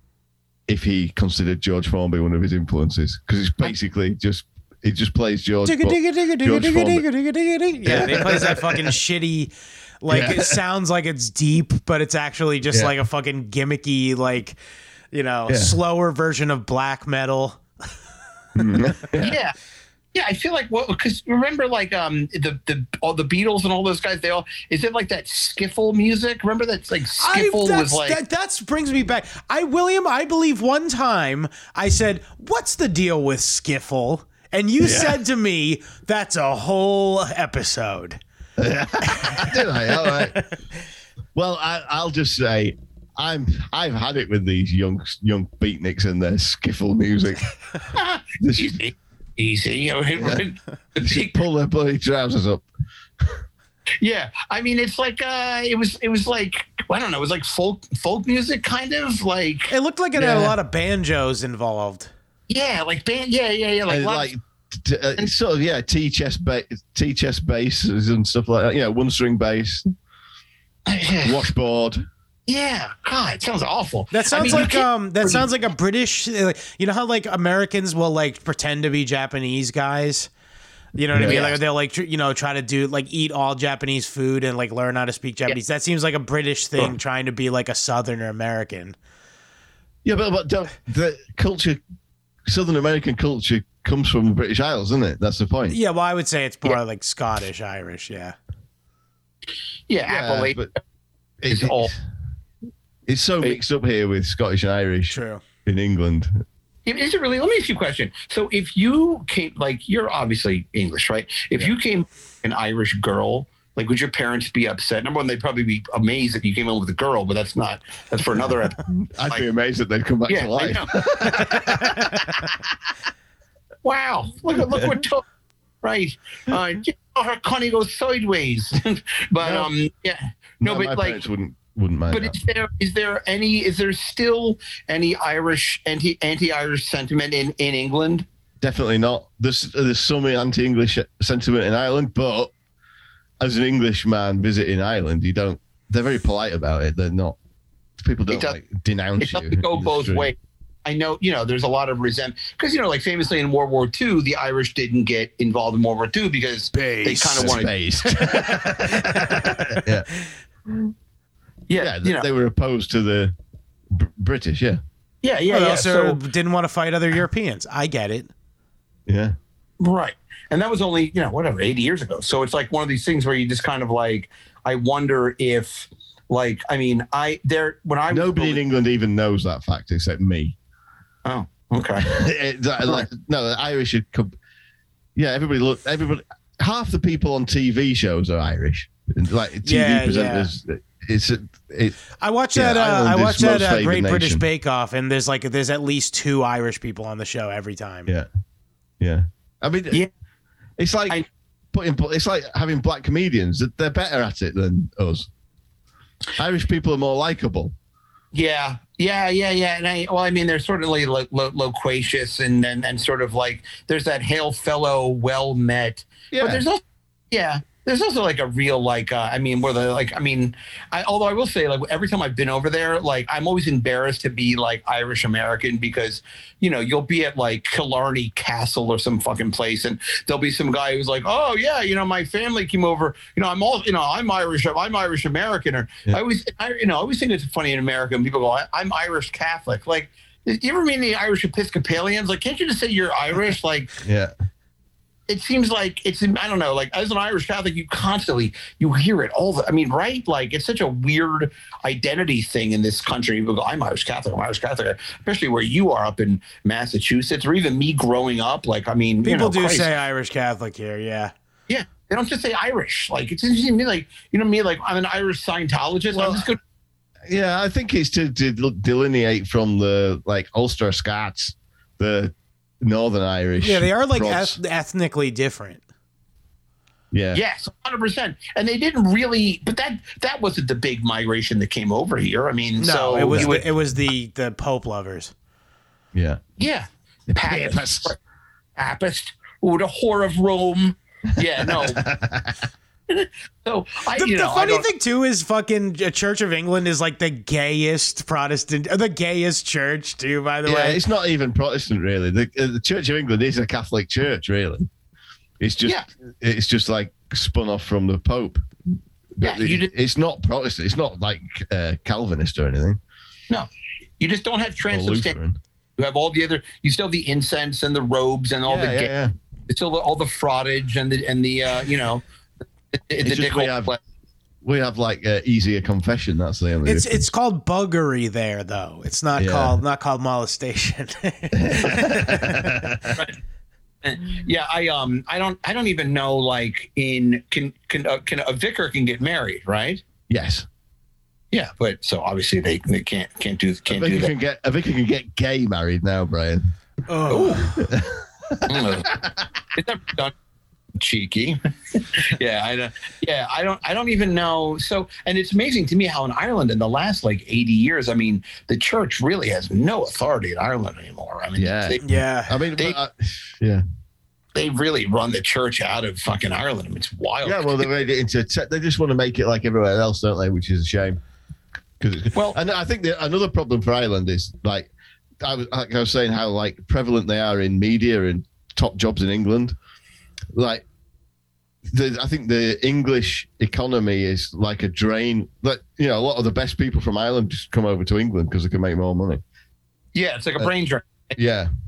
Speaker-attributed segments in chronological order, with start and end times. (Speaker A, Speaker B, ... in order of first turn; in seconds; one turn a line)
Speaker A: 0.7-7.0
Speaker B: 5.6-14.6
Speaker A: 7.8-8.9
Speaker A: 10.1-10.6
Speaker B: 15.1-17.6
Speaker A: 15.5-15.8
Speaker A: 18.5-19.4
Speaker C: 19.2-19.5
Speaker C: 20.1-28.2
Speaker B: 27.2-38.2
Speaker A: 34.8-35.2
Speaker A: 38.6-40.4
Speaker B: 39.0-40.3
Speaker A: 41.3-47.5
Speaker C: 47.9-51.4
Speaker A: 48.4-48.7
Speaker A: 51.0-52.6
Speaker C: 54.0-59.7
Speaker B: 59.7-62.1
Speaker A: 60.1-60.6
Speaker C: 62.5-64.3
Speaker A: 63.9-69.8
Speaker C: 70.9-71.5
Speaker A: 71.2-72.0
Speaker C: 72.5-75.4
Speaker B: 74.1-80.3
Speaker B: 81.0-89.0
Speaker A: 81.1-81.5
Speaker C: 81.2-81.6
Speaker A: 90.0-91.8
Speaker A: 92.5-95.8
Speaker B: 95.7-98.3
Speaker C: 99.9-100.7
Speaker A: 100.1-100.7
Speaker A: 101.4-102.0
Speaker C: 101.5-101.9
Speaker A: 103.1-106.4
Speaker B: 105.1-105.4
Speaker C: 106.8-119.4
Speaker A: 118.8-122.6
Speaker C: 120.3-121.0
Speaker C: 123.8-125.2
Speaker C: 125.8-131.2
Speaker A: 129.4-129.7
Speaker A: 130.6-132.4
Speaker C: 132.1-138.2
Speaker A: 138.6-142.5
Speaker A: 143.4-147.4
Speaker A: 148.0-150.3
Speaker C: 148.3-148.6
Speaker C: 149.2-157.7
Speaker B: 156.7-157.5
Speaker A: 157.0-160.1
Speaker B: 158.2-159.6
Speaker A: 160.7-160.9
Speaker C: 161.7-162.3
Speaker A: 161.8-163.3
Speaker A: 163.9-164.8
Speaker C: 165.2-166.2
Speaker B: 165.5-168.3
Speaker A: 169.1-169.3
Speaker C: 169.8-178.6
Speaker A: 178.1-180.5
Speaker C: 181.2-182.1
Speaker A: 182.0-184.3
Speaker A: 185.2-192.0
Speaker B: 189.6-190.5
Speaker B: 192.2-198.1
Speaker A: 192.5-194.4
Speaker A: 199.0-200.1
Speaker A: 200.8-201.2
Speaker A: 201.7-205.3
Speaker A: 206.4-207.7
Speaker C: 208.3-244.0
Speaker A: 216.3-216.6
Speaker A: 244.0-244.3
Speaker C: 245.3-259.9
Speaker B: 259.2-261.3
Speaker C: 261.7-266.6
Speaker A: 266.1-266.5
Speaker A: 267.3-274.6
Speaker B: 273.6-275.8
Speaker A: 277.1-277.4
Speaker C: 277.3-283.7
Speaker B: 282.8-285.3
Speaker A: 283.3-283.6
Speaker A: 286.1-286.4
Speaker C: 286.6-288.2
Speaker A: 287.3-288.1
Speaker C: 288.8-292.0
Speaker A: 291.6-292.6
Speaker C: 293.1-294.8
Speaker B: 294.2-301.0
Speaker A: 300.6-304.9
Speaker A: 305.6-308.6
Speaker A: 309.3-313.0
Speaker C: 309.4-309.9
Speaker C: 314.2-315.4
Speaker A: 314.9-315.6
Speaker C: 316.0-319.1
Speaker A: 318.6-319.3
Speaker C: 319.7-322.2
Speaker C: 322.9-324.0
Speaker A: 323.2-323.9
Speaker A: 324.6-327.2
Speaker B: 326.8-332.7
Speaker A: 329.4-329.8
Speaker A: 331.5-333.2
Speaker C: 334.0-340.0
Speaker A: 340.3-340.7
Speaker C: 341.5-344.3
Speaker A: 343.9-346.7
Speaker B: 347.1-347.9
Speaker C: 347.3-347.6
Speaker A: 347.7-349.5
Speaker C: 348.7-349.1
Speaker C: 349.7-350.3
Speaker C: 351.0-362.1
Speaker A: 361.6-363.8
Speaker B: 362.0-362.6
Speaker C: 364.5-367.9
Speaker A: 367.4-371.2
Speaker A: 372.0-374.9
Speaker A: 375.4-379.8
Speaker A: 380.5-380.8
Speaker A: 381.9-389.4
Speaker C: 390.1-391.3
Speaker A: 391.4-391.7